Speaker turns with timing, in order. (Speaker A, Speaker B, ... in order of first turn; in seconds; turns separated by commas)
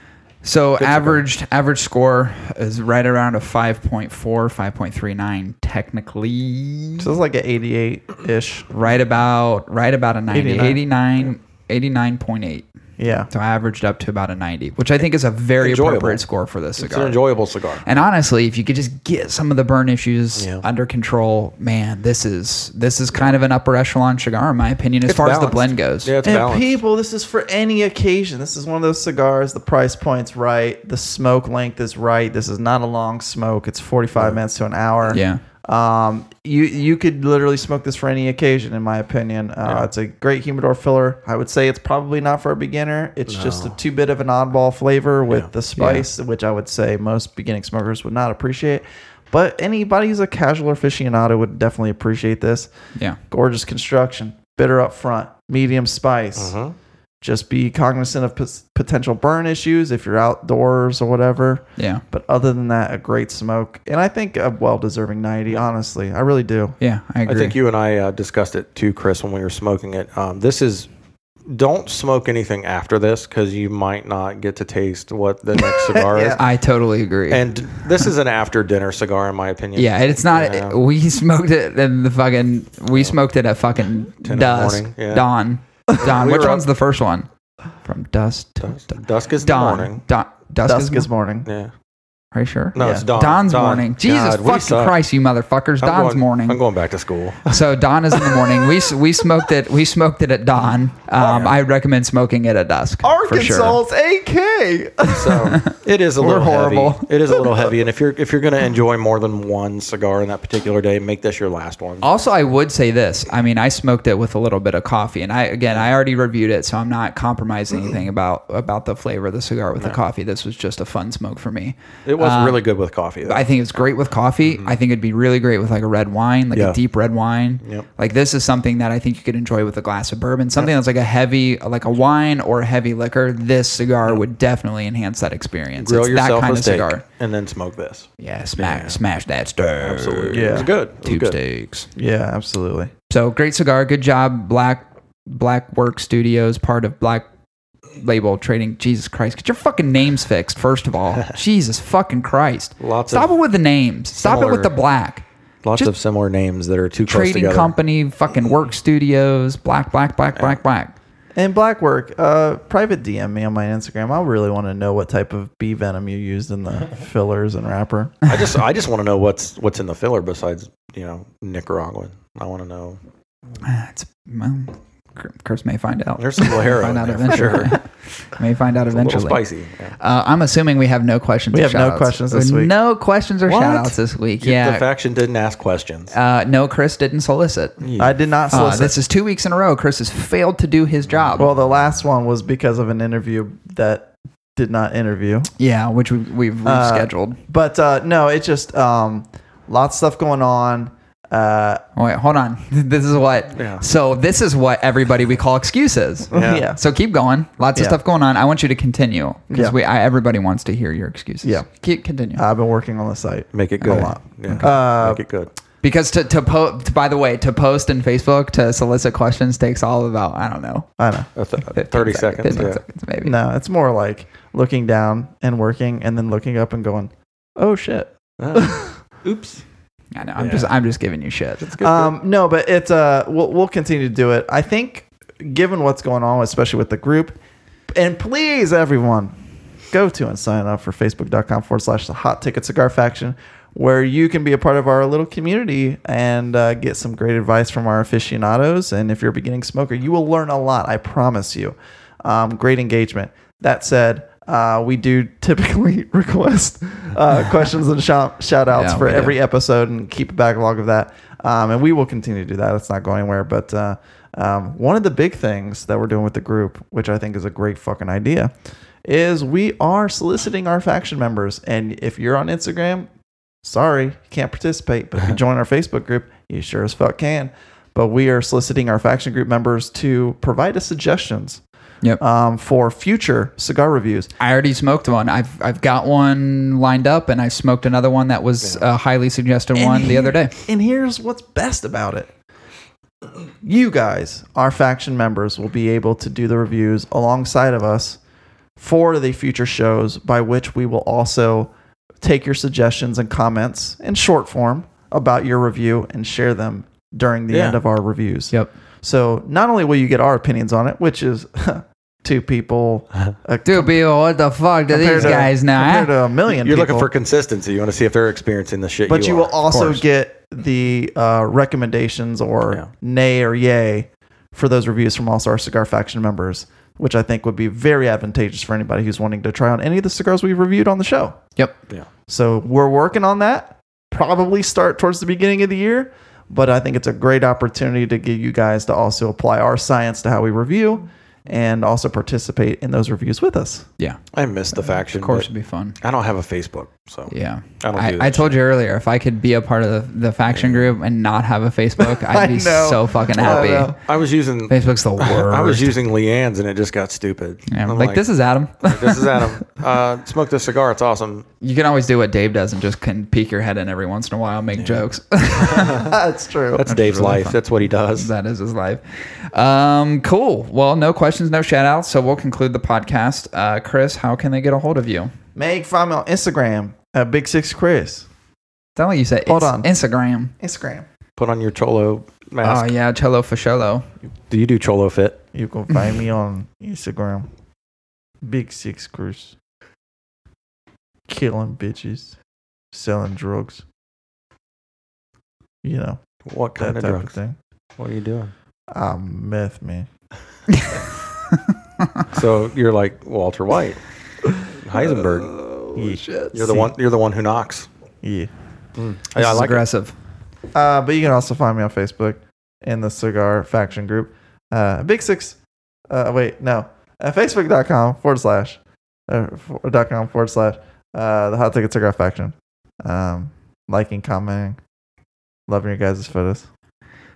Speaker A: 0.4-7.1, Speaker B: 0.8-1.2, Speaker C: 7.0-8.7, Speaker A: 8.7-12.7, Speaker C: 10.3-10.8, Speaker C: 13.0-13.3, Speaker A: 13.3-17.2, Speaker B: 15.6-16.2, Speaker B: 16.8-17.9, Speaker A: 17.8-26.1, Speaker B: 20.4-20.6, Speaker B: 25.1-26.8, Speaker C: 26.2-52.7, Speaker A: 35.1-35.4, Speaker B: 39.6-39.9, Speaker B: 43.3-43.8, Speaker A: 45.8-46.1, Speaker C: 53.3-56.5, Speaker B: 56.4-56.8, Speaker C: 57.2-66.8, Speaker A: 61.8-62.0, Speaker A: 66.8-67.6, Speaker B: 67.3-70.9, Speaker B: 71.5-76.4, Speaker C: 75.6-76.4, Speaker A: 76.4-77.8, Speaker B: 77.3-80.8, Speaker A: 79.8-87.3, Speaker B: 84.2-85.3, Speaker B: 85.9-86.7, Speaker A: 87.8-91.1, Speaker B: 88.6-90.0, Speaker C: 90.7-91.5, Speaker B: 91.5-91.7, Speaker A: 92.3-96.6, Speaker B: 92.8-95.0, Speaker C: 92.8-93.1, Speaker B: 95.8-97.6, Speaker A: 97.5-103.8, Speaker B: 100.6-101.6, Speaker C: 103.0-105.6, Speaker B: 105.1-112.1, Speaker A: 105.5-107.1, Speaker C: 107.3-107.7, Speaker A: 112.0-122.6, Speaker B: 122.1-123.5, Speaker A: 123.2-137.0, Speaker B: 124.4-124.8, Speaker B: 126.5-126.8, Speaker B: 127.6-127.9, Speaker B: 135.8-139.0, Speaker A: 138.2-141.9, Speaker B: 139.8-141.4, Speaker C: 140.3-140.7, Speaker C: 142.0-142.9, Speaker A: 143.1-147.3, Speaker A: 148.0-155.9, Speaker B: 152.8-153.3, Speaker B: 154.2-154.7, Speaker B: 155.6-157.7, Speaker A: 157.1-160.9, Speaker C: 161.3-168.2, Speaker B: 168.3-173.0, Speaker A: 173.6-179.4, Speaker B: 176.2-177.8, Speaker B: 178.9-180.0, Speaker A: 180.0-184.8, Speaker C: 181.5-182.7, Speaker B: 183.5-186.1, Speaker A: 186.1-187.8, Speaker B: 187.8-188.5, Speaker C: 188.0-188.9, Speaker A: 188.5-191.5, Speaker C: 191.4-195.5, Speaker A: 195.6-197.4, Speaker C: 196.7-201.8, Speaker A: 202.0-212.4, Speaker B: 203.6-203.8, Speaker C: 206.3-206.8, Speaker B: 206.3-206.7, Speaker C: 209.5-209.8, Speaker C: 212.3-215.2, Speaker B: 213.5-215.5, Speaker A: 213.8-214.7, Speaker A: 215.8-220.9, Speaker C: 221.0-221.3, Speaker B: 221.4-222.8, Speaker A: 221.7-223.3, Speaker C: 223.2-228.9, Speaker B: 228.4-229.6, Speaker A: 230.1-231.7, Speaker B: 230.4-230.7, Speaker B: 231.6-232.1, Speaker C: 231.8-237.4, Speaker C: 237.9-239.3, Speaker C: 239.9-273.1, Speaker A: 258.7-259.4, Speaker C: 273.6-281.6, Speaker C: 282.2-284.3, Speaker A: 284.4-290.5, Speaker B: 288.6-288.9, Speaker C: 289.8-292.3, Speaker C: 293.6-298.2, Speaker C: 298.8-314.0, Speaker B: 307.5-307.8, Speaker A: 313.6-316.1, Speaker C: 314.9-317.1, Speaker B: 315.2-315.5, Speaker B: 316.5-319.5, Speaker C: 319.1-331.4, Speaker A: 319.7-320.0, Speaker C: 332.3-343.9, Speaker B: 344.3-348.6, Speaker A: 344.8-346.0, Speaker A: 347.3-353.9, Speaker B: 350.5-350.9, Speaker C: 352.1-354.0, Speaker B: 353.4-358.2, Speaker A: 354.7-355.9, Speaker A: 357.7-359.5, Speaker B: 358.8-361.4, Speaker A: 361.6-366.1, Speaker B: 364.8-365.0, Speaker B: 365.6-366.1, Speaker C: 365.9-366.9, Speaker B: 366.8-368.3, Speaker A: 366.9-367.6, Speaker A: 368.1-375.3, Speaker C: 375.6-378.3, Speaker A: 379.0-380.5, Speaker C: 379.5-379.9, Speaker C: 380.6-381.1, Speaker B: 381.4-382.9, Speaker A: 382.6-384.1, Speaker B: 384.5-385.4, Speaker C: 385.5-387.5, Speaker C: 388.4-389.6, Speaker C: 391.3-392.4, Speaker C: 392.9-393.8, Speaker C: 395.8-396.2, Speaker B: 396.5-397.4, Speaker C: 396.8-397.6, Speaker B: 398.0-398.5, Speaker C: 398.9-400.1, Speaker A: 401.5-402.3, Speaker B: 402.3-404.0, Speaker B: 404.7-405.5, Speaker A: 405.1-406.8, Speaker C: 405.9-406.9, Speaker B: 406.5-407.9, Speaker C: 408.2-408.5, Speaker B: 409.0-409.8, Speaker A: 409.4-410.1, Speaker C: 410.7-415.6, Speaker C: 416.1-424.8, Speaker C: 425.7-426.7